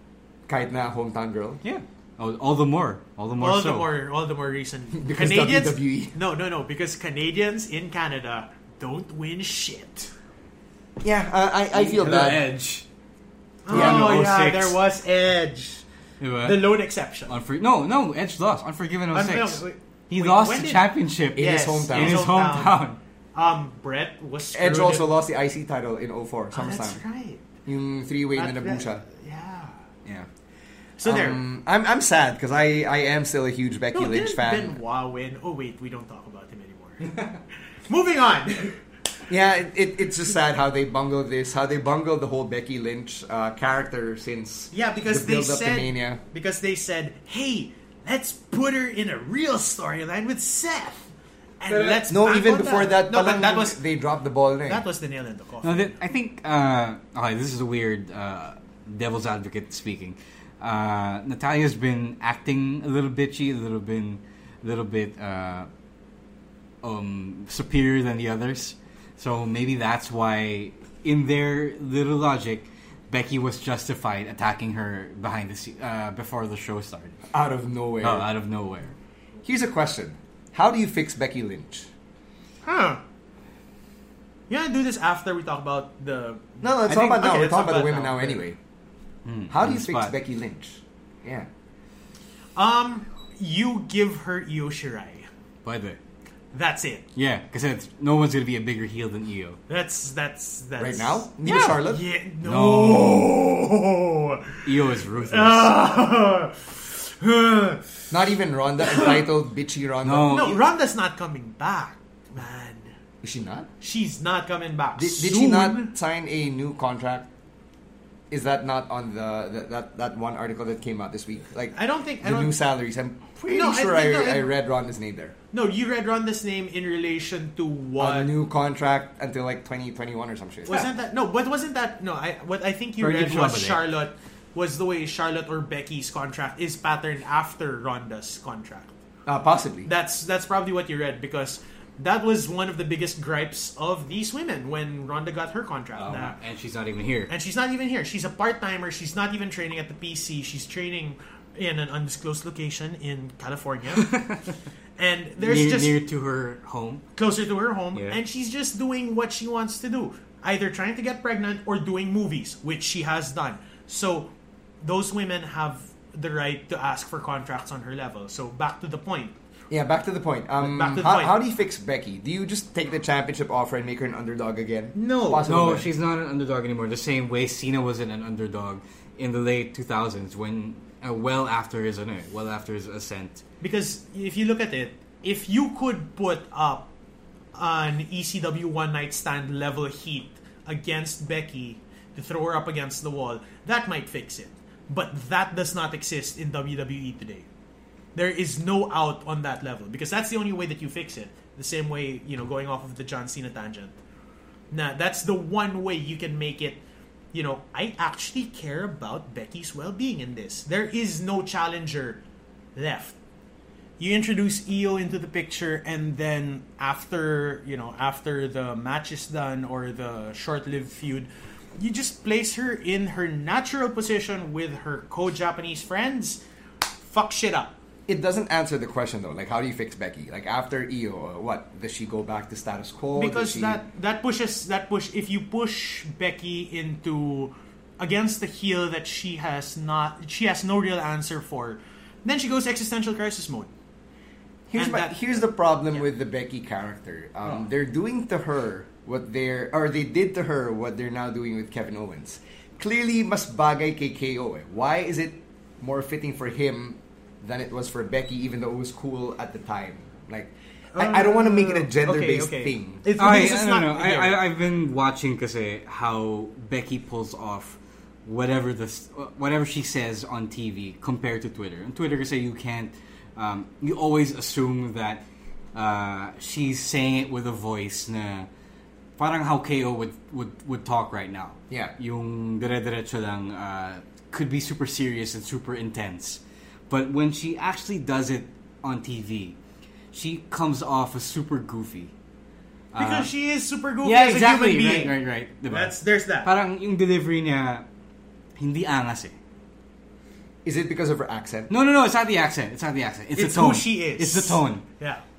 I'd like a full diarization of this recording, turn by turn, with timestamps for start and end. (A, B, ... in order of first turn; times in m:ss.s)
0:00.5-0:01.6 A
0:01.6-0:03.9 B
0:03.4-0:10.1 C
0:05.0-0:06.2 A
0:11.0-0:12.5 A
0:11.7-0:12.8 B
0:13.6-0:15.8 C
0:13.7-0:14.8 B
0:13.7-0:14.2 A
0:16.2-0:23.0 B
0:16.4-0:17.4 C
0:19.1-0:22.8 C
0:21.4-0:22.4 A
0:23.4-0:25.0 C
0:24.5-0:27.0 A
0:26.5-0:27.4 C
0:27.7-0:29.0 A
0:28.4-0:29.7 C
0:31.0-0:31.4 C
0:31.0-0:34.8 A
0:33.9-0:37.2 C
0:37.9-0:38.8 C
0:39.3-0:46.2 A
0:44.7-0:51.1 C
0:51.6-0:53.8 C
0:51.7-0:52.0 B
0:51.7-0:54.9 A
0:54.7-0:55.9 C
0:55.6-1:05.7 B
1:06.8-1:17.2 B
1:17.3-1:18.3 A
1:18.0-1:18.9 B
1:19.4-1:21.9 A
1:22.6-1:23.0 C
1:24.5-1:28.4 C
1:26.6-1:28.6 A
1:29.2-1:30.1 B
1:29.5-1:31.5 A
1:32.6-1:35.3 C
1:35.6-1:36.0 B
1:36.5-1:37.0 C
1:37.2-1:39.6 B
1:39.7-1:44.7 C
1:40.8-1:42.0 A
1:41.4-1:41.8 B
1:42.4-1:43.3 B
1:44.6-1:45.8 B
1:45.2-1:47.9 C
1:48.1-1:50.6 A
1:50.0-1:50.6 B
1:50.3-1:52.9 C
1:53.2-1:53.7 A
1:53.8-1:55.9 C
1:55.0-1:57.3 A
1:58.3-2:05.4 A
2:01.7-2:02.6 C
2:03.5-2:04.5 C
2:05.5-2:08.3 C
2:08.0-2:10.9 A
2:10.7-2:18.9 C
2:13.0-2:13.8 B
2:19.3-2:19.9 A
2:19.9-2:26.4 C
2:26.0-2:27.3 B
2:27.3-2:34.1 C
2:34.0-2:34.5 B
2:35.0-2:36.0 C
2:35.4-2:37.0 B
2:37.2-2:44.3 C
2:37.9-2:38.2 B
2:44.8-2:49.4 C
2:49.7-2:55.9 A
2:50.6-2:51.4 C
2:54.9-2:55.4 C
2:55.4-3:03.4 B
3:03.6-3:06.9 C
3:07.6-3:17.4 C
3:18.1-3:24.0 C
3:24.7-3:26.8 C
3:27.3-3:32.2 C
3:32.7-3:33.2 C
3:34.0-3:46.4 C
3:47.0-3:47.8 C
3:48.1-3:53.8 A
3:53.2-4:03.7 C
4:04.7-4:23.0 A
4:04.8-4:05.4 C
4:20.9-4:24.4 C
4:23.2-4:38.5 B
4:39.2-4:49.6 B
4:50.1-4:52.1 B
4:52.9-4:53.3 B
4:53.0-4:55.2 C
4:54.0-4:57.8 B
4:55.7-4:56.5 C
4:58.6-4:59.3 B
5:00.6-5:01.7 A
5:01.7-5:04.8 B
5:03.4-5:05.2 C